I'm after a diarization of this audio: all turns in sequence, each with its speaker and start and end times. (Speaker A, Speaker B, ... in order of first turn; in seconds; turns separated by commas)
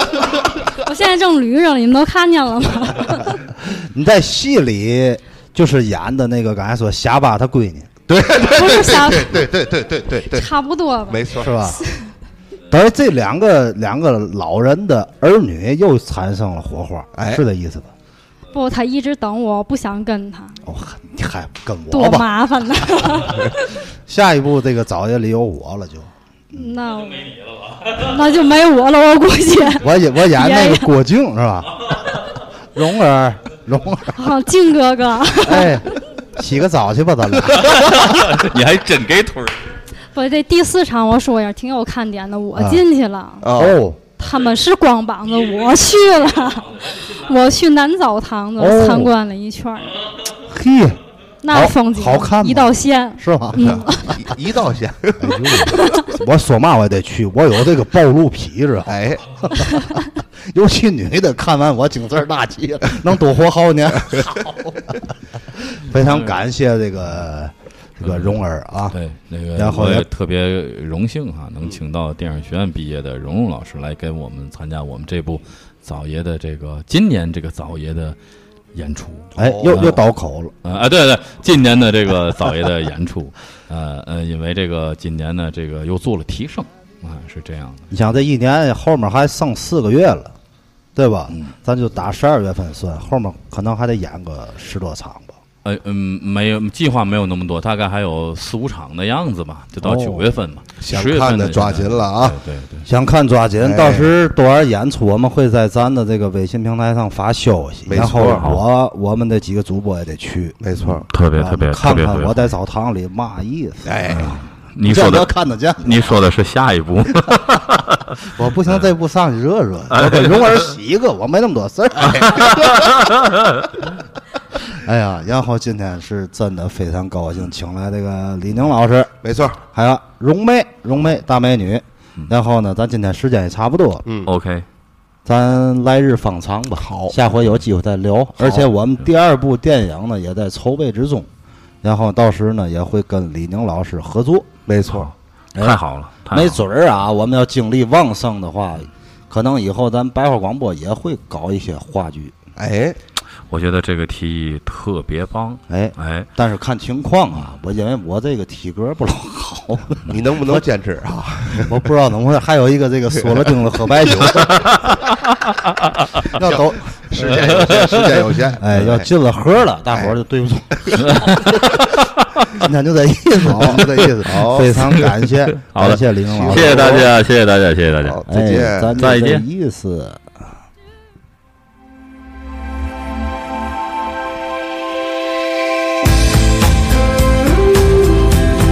Speaker A: 0.7-3.4, Speaker B: 3.6-7.9, Speaker C: 8.1-10.5, Speaker A: 8.4-9.5, Speaker A: 10.2-12.1, Speaker C: 11.1-11.5, Speaker B: 11.4-11.8, Speaker B: 12.7-17.9, Speaker C: 17.1-17.4, Speaker A: 18.5-20.5, Speaker B: 20.6-22.3, Speaker A: 21.9-23.7, Speaker B: 24.1-26.7, Speaker A: 26.5-30.9, Speaker B: 29.8-31.8, Speaker B: 32.7-34.3, Speaker A: 34.1-35.8, Speaker B: 35.4-38.0, Speaker D: 37.5-39.7, Speaker A: 40.1-43.5, Speaker B: 42.5-42.8, Speaker C: 43.4-43.8, Speaker B: 43.5-44.0, Speaker A: 44.1-50.0, Speaker B: 48.6-49.1, Speaker B: 50.5-53.9, Speaker A: 51.4-54.2, Speaker C: 53.6-55.8, Speaker B: 55.2-69.0, Speaker A: 55.7-56.0, Speaker C: 58.9-59.2, Speaker D: 66.0-66.4, Speaker D: 68.0-68.4, Speaker D: 68.9-78.2, Speaker B: 69.5-70.1, Speaker D: 78.7-80.0, Speaker B: 79.3-80.5, Speaker C: 79.4-79.9, Speaker D: 80.6-87.9, Speaker B: 87.9-90.3, Speaker B: 90.9-95.3, Speaker D: 95.6-102.9, Speaker B: 99.8-100.3, Speaker C: 100.8-102.4, Speaker B: 102.8-110.5, Speaker C: 103.6-104.1, Speaker C: 107.8-108.5, Speaker D: 108.0-108.6, Speaker C: 110.6-111.0, Speaker D: 111.1-112.4, Speaker B: 111.3-114.3, Speaker C: 113.8-114.4, Speaker D: 114.1-118.1, Speaker B: 114.8-116.0, Speaker B: 118.3-122.9, Speaker D: 119.9-120.5, Speaker C: 122.0-122.4, Speaker D: 122.5-123.3, Speaker B: 124.6-129.1, Speaker C: 129.2-129.6, Speaker B: 129.7-134.0, Speaker D: 134.2-134.7, Speaker B: 135.2-141.3, Speaker C: 136.7-137.2, Speaker C: 138.4-138.7, Speaker B: 141.8-144.5, Speaker C: 144.7-145.1, Speaker D: 145.0-146.6, Speaker B: 145.6-152.3, Speaker C: 152.6-153.0, Speaker D: 153.5-156.3, Speaker B: 155.7-160.6, Speaker C: 160.1-161.7, Speaker B: 161.6-164.7, Speaker C: 163.9-164.6, Speaker D: 164.9-166.3, Speaker C: 166.3-169.1, Speaker B: 166.4-171.7, Speaker D: 167.3-167.9, Speaker D: 171.0-172.5, Speaker B: 172.5-177.0, Speaker C: 173.5-174.8, Speaker D: 174.8-178.2, Speaker C: 176.3-177.1, Speaker C: 178.0-179.1, Speaker B: 178.3-180.2, Speaker D: 178.9-179.4